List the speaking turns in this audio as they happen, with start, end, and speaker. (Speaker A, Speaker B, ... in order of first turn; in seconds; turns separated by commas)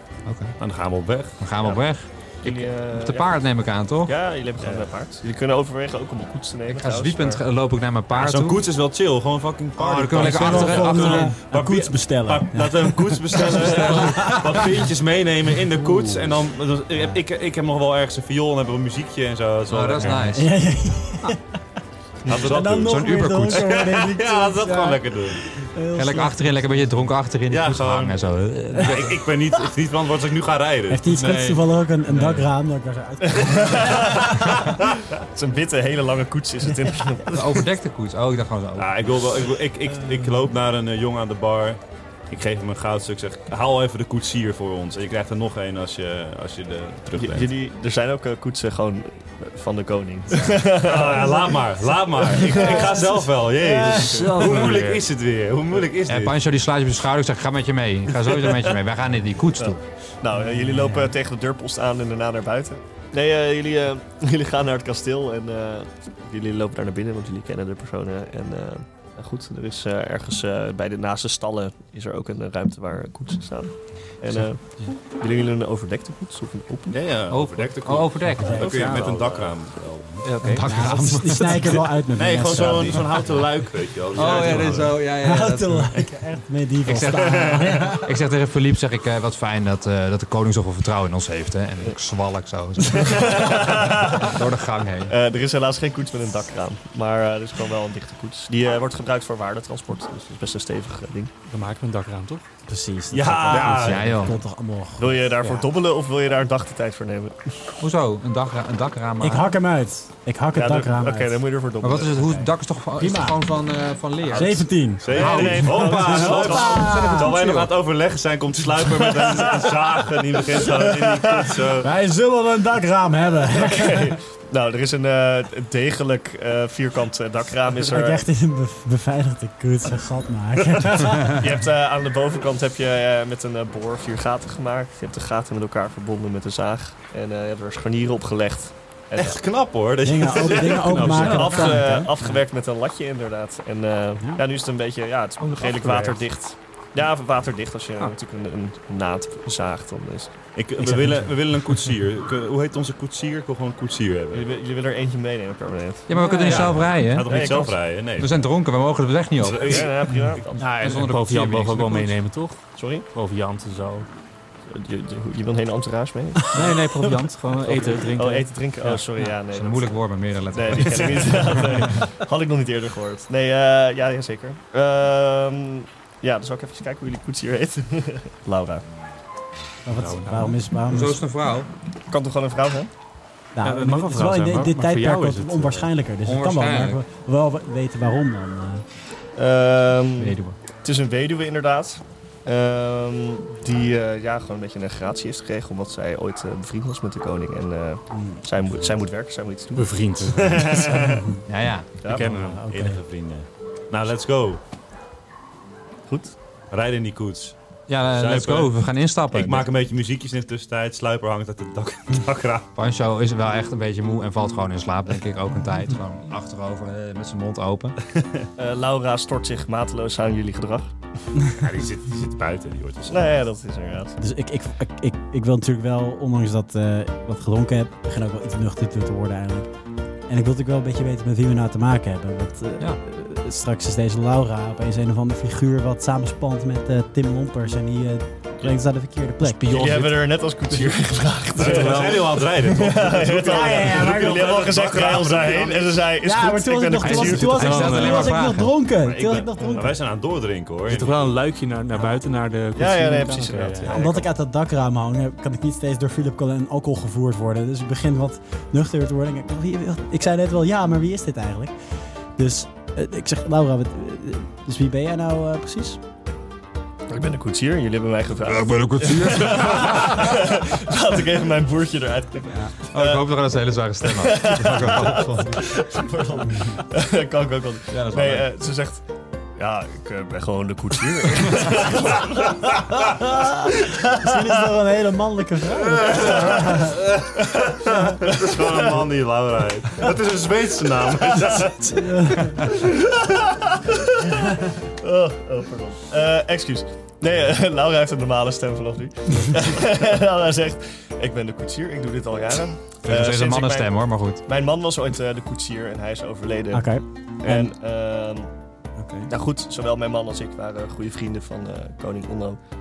Speaker A: 0.2-0.6, Speaker B: 0.6-1.4, Speaker A: 1.4-4.1, Speaker C: 2.4-3.4, Speaker C: 4.0-7.4, Speaker A: 6.7-8.6, Speaker B: 8.1-20.3, Speaker A: 9.8-11.3, Speaker D: 10.2-14.7, Speaker A: 13.5-14.4, Speaker A: 19.7-20.5, Speaker D: 20.2-21.4, Speaker B: 22.2-25.4, Speaker D: 22.3-26.5, Speaker A: 22.6-23.8, Speaker A: 25.9-29.2, Speaker B: 27.5-31.0, Speaker D: 30.9-34.4, Speaker A: 31.1-32.5, Speaker C: 33.2-37.6, Speaker A: 37.3-39.1, Speaker B: 38.8-41.8, Speaker B: 42.3-47.5, Speaker C: 47.1-51.6, Speaker B: 50.8-56.4, Speaker C: 52.2-53.0, Speaker D: 52.6-53.0, Speaker D: 53.6-54.5, Speaker E: 53.8-55.0, Speaker C: 53.9-54.5, Speaker A: 56.1-59.8, Speaker C: 59.6-77.0, Speaker D: 60.4-61.1, Speaker B: 76.9-80.3, Speaker A: 77.3-79.1, Speaker D: 78.4-78.9, Speaker C: 78.6-79.5, Speaker E: 80.2-80.7, Speaker A: 80.4-81.8, Speaker D: 80.6-83.2, Speaker B: 82.1-85.0, Speaker A: 84.1-86.1, Speaker D: 85.0-88.1, Speaker A: 86.8-95.2, Speaker B: 87.5-87.8, Speaker C: 92.8-94.4, Speaker C: 95.1-101.3, Speaker E: 101.5-102.4, Speaker D: 102.7-105.3, Speaker B: 103.1-104.1, Speaker E: 103.5-104.1, Speaker A: 103.8-104.4, Speaker C: 105.0-107.4, Speaker A: 107.8-109.5, Speaker D: 109.2-111.4, Speaker C: 110.5-112.4, Speaker A: 111.8-117.7, Speaker D: 113.0-113.4, Speaker D: 114.3-117.3, Speaker B: 115.0-121.9, Speaker C: 115.1-116.8, Speaker C: 118.9-121.6, Speaker D: 121.8-124.2, Speaker C: 123.5-128.2, Speaker D: 127.9-131.4, Speaker C: 131.2-139.4, Speaker B: 139.2-141.3, Speaker D: 140.0-142.3, Speaker E: 140.7-142.0, Speaker C: 141.0-150.3, Speaker E: 145.4-146.2, Speaker B: 150.5-154.5, Speaker C: 154.3-156.7, Speaker A: 156.1-159.9, Speaker E: 156.2-156.5, Speaker B: 156.4-158.4, Speaker C: 157.3-157.8, Speaker B: 159.4-160.4, Speaker C: 159.6-160.6, Speaker E: 160.6-164.1, Speaker A: 160.7-162.2, Speaker C: 162.7-163.1, Speaker C: 164.7-166.9, Speaker E: 166.5-169.0, Speaker C: 167.6-170.0, Speaker A: 169.4-171.9, Speaker C: 170.5-178.8, Speaker D: 179.8-181.2, Speaker E: 179.9-180.6, Speaker A: 180.9-181.7, Speaker C: 182.1-182.9, Speaker D: 183.5-188.8, Speaker E: 183.6-185.9, Speaker A: 186.2-187.0, Speaker C: 189.3-201.3, Speaker A: 190.2-190.5, Speaker D: 190.2-190.5, Speaker D: 198.1-198.4, Speaker E: 199.7-201.0, Speaker A: 201.4-202.0, Speaker E: 202.1-202.6, Speaker B: 202.2-204.6, Speaker D: 202.2-203.0, Speaker C: 206.1-206.3, Speaker B: 206.7-207.5, Speaker A: 207.9-209.7, Speaker B: 208.1-208.7, Speaker B: 209.3-212.7, Speaker A: 212.8-218.0, Speaker B: 218.1-218.5, Speaker C: 218.6-220.9, Speaker B: 221.5-223.4, Speaker C: 223.1-224.2, Speaker D: 224.2-229.7, Speaker D: 230.3-239.8, Speaker E: 239.4-240.3, Speaker C: 239.7-248.2, Speaker E: 241.6-242.2, Speaker B: 241.6-246.0, Speaker D: 243.4-244.5, Speaker D: 246.2-249.9, Speaker A: 247.0-248.7, Speaker E: 247.7-248.1, Speaker B: 249.0-251.2, Speaker E: 250.9-253.9, Speaker C: 252.8-254.3, Speaker D: 253.9-266.0, Speaker C: 267.1-273.4, Speaker A: 268.5-270.3, Speaker A: 272.9-275.7, Speaker C: 274.0-279.0, Speaker A: 277.9-278.5, Speaker C: 279.6-284.5, Speaker D: 283.0-287.0, Speaker B: 285.7-292.8, Speaker C: 286.1-286.6, Speaker C: 288.1-288.9, Speaker D: 291.9-292.6, Speaker C: 292.6-308.5, Speaker A: 303.0-304.4, Speaker D: 306.7-307.7, Speaker D: 309.0-309.3, Speaker C: 309.3-312.6